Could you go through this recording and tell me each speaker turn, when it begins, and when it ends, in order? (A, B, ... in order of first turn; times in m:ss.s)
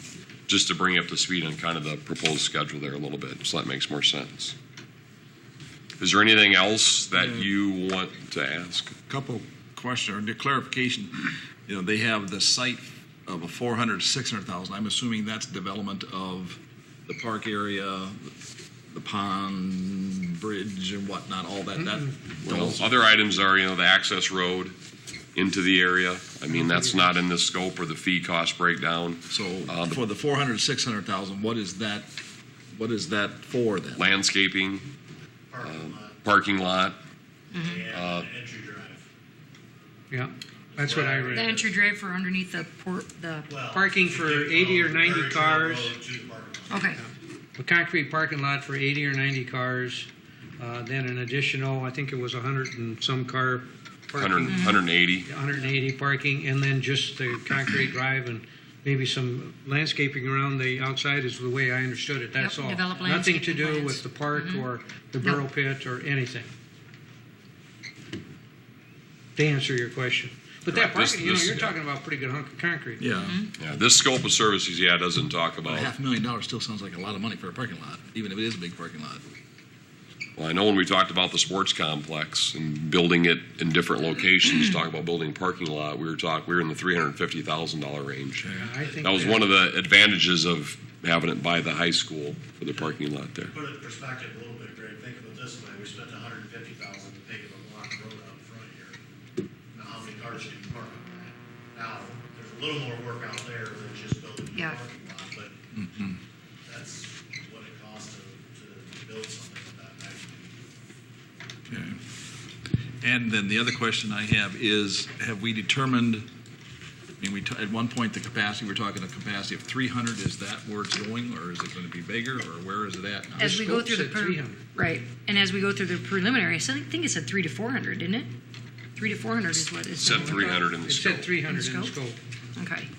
0:00.5-0:04.5 A
0:06.0-0:09.0 A
0:07.1-0:07.5 B
0:09.1-0:18.3 B
0:18.9-0:22.9 B
0:21.8-0:22.1 C
0:22.4-0:24.7 A
0:25.3-0:30.0 A
0:26.5-0:27.1 C
0:29.3-0:32.2 B
0:32.7-0:34.1 B
0:34.0-0:34.9 A
0:35.5-0:36.2 D
0:35.6-0:37.0 A
0:37.5-0:37.8 E
0:37.5-0:39.0 D
0:37.9-0:38.3 A
0:40.1-0:41.4 C
0:40.7-0:41.7 D
0:41.3-0:43.6 E
0:43.5-0:46.9 D
0:43.7-0:46.0 C
0:46.7-0:47.0 E
0:47.6-0:50.1 C
0:50.6-1:06.5 C
0:54.2-0:55.3 A
0:54.4-0:54.8 E
1:02.4-1:04.6 E
1:09.4-1:13.1 C
1:10.6-1:11.8 A
1:13.0-1:13.3 B
1:13.1-1:13.5 E
1:13.6-1:15.9 A
1:15.6-1:19.2 B
1:20.4-1:33.5 A
1:28.4-1:28.7 B
1:28.5-1:29.5 C
1:33.5-1:39.0 D
1:39.7-1:45.6 D
1:44.5-1:44.8 E
1:45.7-1:46.2 B
1:46.6-1:50.6 D
1:51.7-1:52.0 B
1:53.0-1:56.3 B
1:57.2-2:03.6 B
2:03.4-2:04.6 C
2:03.4-2:08.3 E
2:09.0-2:10.5 E
2:10.0-2:11.3 A
2:10.1-2:12.2 C
2:11.5-2:11.9 E
2:12.6-2:12.9 E